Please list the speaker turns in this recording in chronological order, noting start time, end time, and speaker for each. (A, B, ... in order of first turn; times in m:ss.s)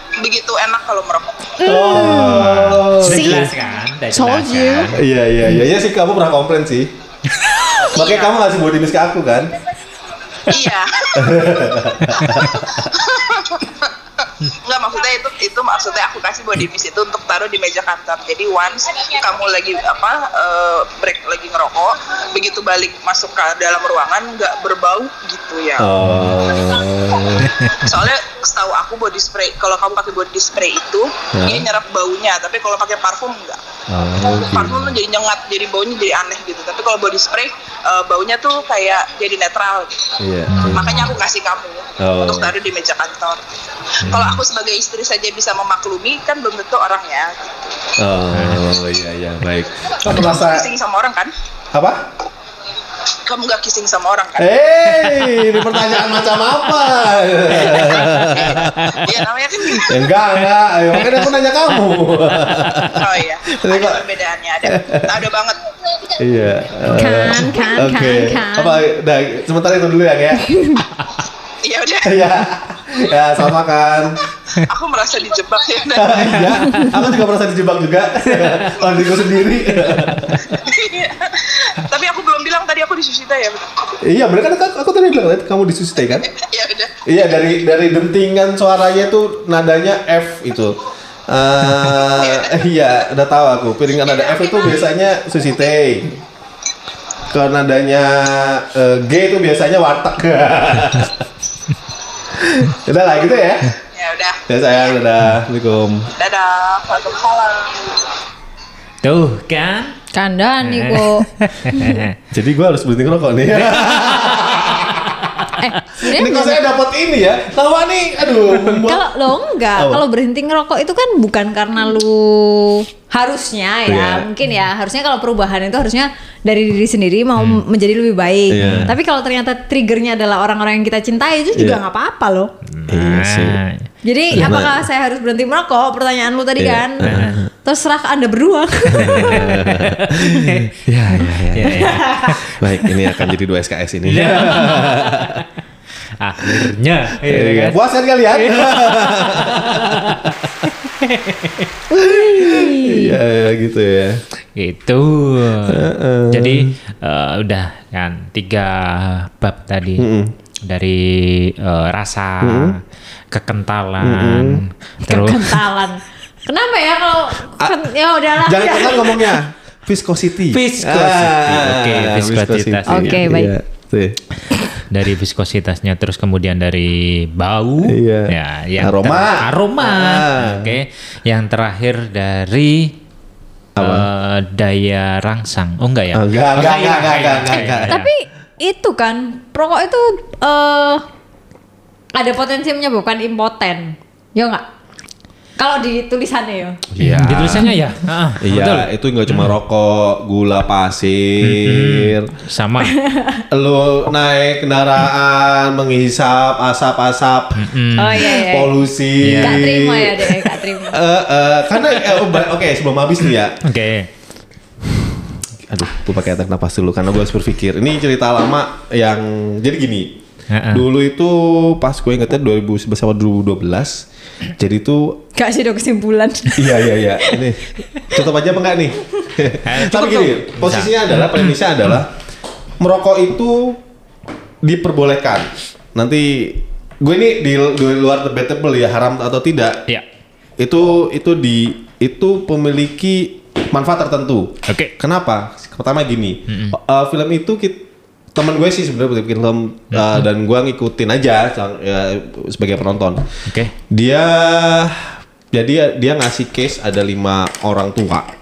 0:00.2-0:01.5 A
0:01.6-0:03.6 B
0:01.6-0:03.5 C
0:01.9-0:05.0 D
0:04.1-0:04.9 B
0:04.9-0:06.9 C
0:07.8-0:08.3 A
0:07.8-0:09.5 C
0:10.5-0:11.5 A
0:11.2-0:12.7 C
0:12.1-0:12.6 D
0:12.3-0:13.9 A
0:14.4-0:25.9 A
0:25.8-0:27.5 C
0:26.0-0:26.4 D
0:27.4-0:27.9 D
0:27.7-0:33.6 A
0:31.3-0:31.7 C
0:33.9-0:34.9 C
0:34.2-0:34.7 D
0:34.2-0:40.1 A
0:40.2-0:41.1 C
0:40.5-0:41.1 D
0:40.7-0:47.8 A
0:42.0-0:42.5 C
0:44.0-0:44.4 D
0:48.0-0:50.7 C
0:48.3-0:48.6 D
0:50.2-0:51.3 A
0:51.7-0:52.0 C
0:53.2-0:54.5 A
0:54.4-0:59.1 C
0:57.7-1:00.2 A
0:59.8-1:04.0 C
1:02.4-1:03.0 D
1:03.0-1:06.2 A
1:04.6-1:05.2 C
1:06.2-1:10.6 C
1:06.9-1:08.8 B
1:10.5-1:10.8 B
1:11.6-1:12.3 A
1:12.0-1:14.2 C
1:14.6-1:16.7 A
1:15.9-1:20.5 C
1:16.5-1:17.0 D
1:18.3-1:18.7 D
1:20.0-1:20.2 D
1:20.3-1:23.9 A
1:24.0-1:26.3 C
1:26.3-1:26.9 A
1:27.0-1:36.2 C
1:32.0-1:32.5 A
1:33.9-1:34.8 A
1:37.3-1:41.2 C
1:42.3-1:43.7 C
1:43.9-1:44.4 A
1:44.5-1:46.1 C
1:46.2-1:48.0 A
1:49.0-1:50.0 D
1:50.1-1:52.0 B
1:50.6-1:52.1 D
1:52.3-1:55.3 C
1:53.6-1:55.5 D
1:55.6-1:56.6 B
1:56.0-1:59.1 C
1:58.7-2:12.5 B
1:59.8-2:00.0 C
2:03.8-2:04.3 C
2:07.4-2:07.6 D
2:08.5-2:08.9 C
2:08.6-2:08.9 D
2:11.5-2:11.8 C
2:12.7-2:14.6 D
2:12.9-2:13.6 C
2:14.0-2:19.6 B
2:14.3-2:14.8 C
2:16.6-2:17.4 C
2:17.0-2:17.4 D
2:18.9-2:20.7 D
2:18.9-2:25.4 C
2:21.5-2:22.5 D
2:21.6-2:22.4 B
2:24.0-2:25.4 D
2:26.2-2:27.8 D
2:27.2-2:30.5 C
2:28.3-2:31.7 D
2:31.9-2:34.2 C
2:31.9-2:33.2 B
2:34.5-2:40.1 D
2:35.6-2:36.7 C
2:40.0-2:40.3 C
2:40.7-2:45.6 D
2:42.4-2:42.8 C
2:44.0-2:44.6 C
2:45.0-2:49.4 B
2:48.3-2:54.2 C
2:50.5-2:53.2 D
2:52.9-2:53.5 B
2:54.9-3:03.0 D
2:57.8-3:00.8 C
3:03.8-3:04.1 C
3:03.8-3:08.1 D
3:06.1-3:08.0 C
3:07.9-3:11.0 B
3:12.1-3:14.6 B
3:15.6-3:16.8 B
3:16.9-3:17.7 C
3:17.0-3:19.5 D
3:18.4-3:22.3 C
3:21.4-3:23.0 D
3:22.8-3:23.4 B
3:23.5-3:33.6 C
3:27.5-3:28.4 D
3:28.0-3:28.8 B
3:29.2-3:29.6 D
3:29.4-3:31.0 B
3:33.6-3:34.1 D
3:35.7-3:40.2 C
3:40.5-3:40.8 D
3:40.7-3:44.0 C
3:44.6-3:45.2 C
3:45.3-3:47.5 B
3:46.6-3:52.1 C
3:49.6-3:51.6 D
3:52.8-3:53.8 C
3:54.6-3:59.8 C
4:00.6-4:13.2 C
4:04.7-4:04.9 D
4:06.5-4:06.8 D
4:09.9-4:10.3 D
4:13.5-4:13.7 D
4:13.9-4:18.3 C